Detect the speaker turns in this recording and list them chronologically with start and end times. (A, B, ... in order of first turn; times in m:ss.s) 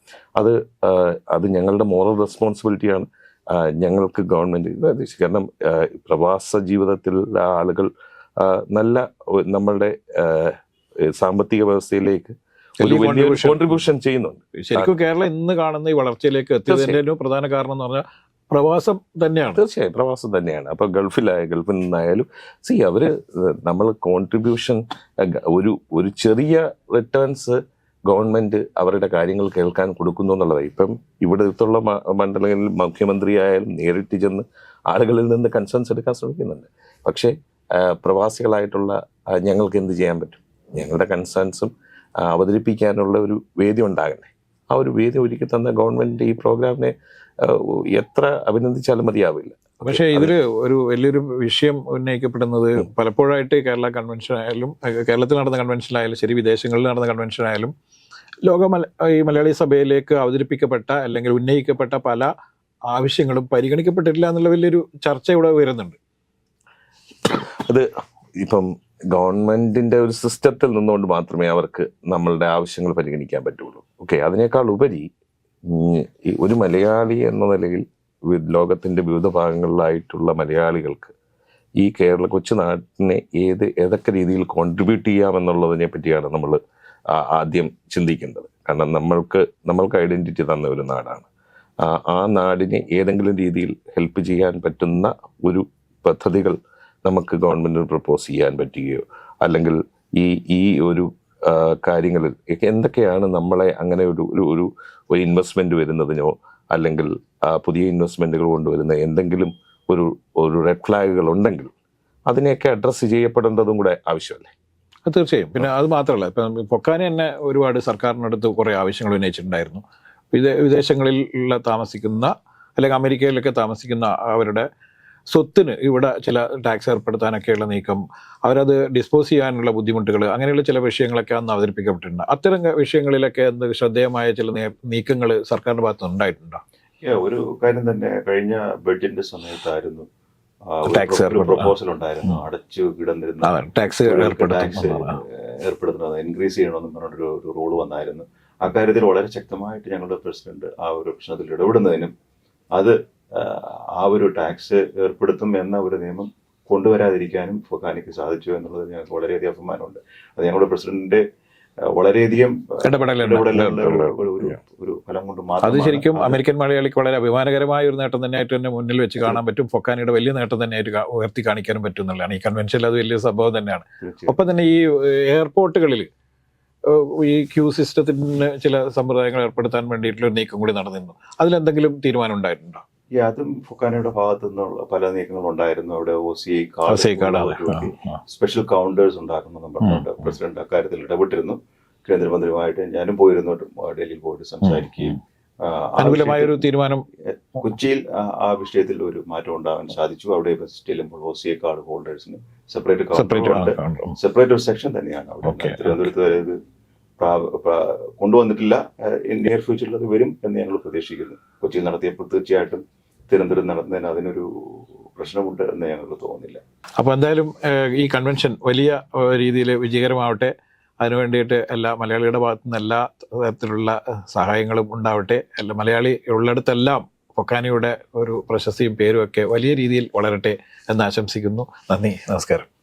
0:00.4-0:14.9 A
0:12.8-0:13.8 B
0:14.6-0:19.6 B
0:16.7-0:17.0 A
0:19.5-0:50.3 A
0:49.8-0:57.7 B
0:58.4-1:02.3 B
1:02.9-1:06.0 B
1:07.2-1:15.1 A
1:15.6-1:21.1 A
1:21.8-1:26.6 A
1:27.1-1:31.3 A
1:31.8-1:51.7 A
1:52.3-1:54.5 A
1:55.1-2:04.7 B
2:05.3-2:16.6 B
2:17.0-2:20.1 C
2:20.7-2:32.1 C
2:20.9-2:21.7 B
2:23.4-2:25.2 B
2:32.7-2:41.2 C
2:41.8-2:46.4 C
2:42.8-2:44.0 B
2:43.8-2:44.1 A
2:45.6-2:56.1 B
2:54.0-2:54.4 C
2:56.9-3:02.8 B
3:03.2-3:16.6 C
3:06.9-3:08.2 B
3:09.8-3:10.3 B
3:14.6-3:15.2 B
3:16.0-3:17.1 B
3:17.2-3:26.6 C
3:23.1-3:24.1 B
3:25.4-3:26.0 B
3:27.2-3:36.6 C
3:37.0-3:52.7 B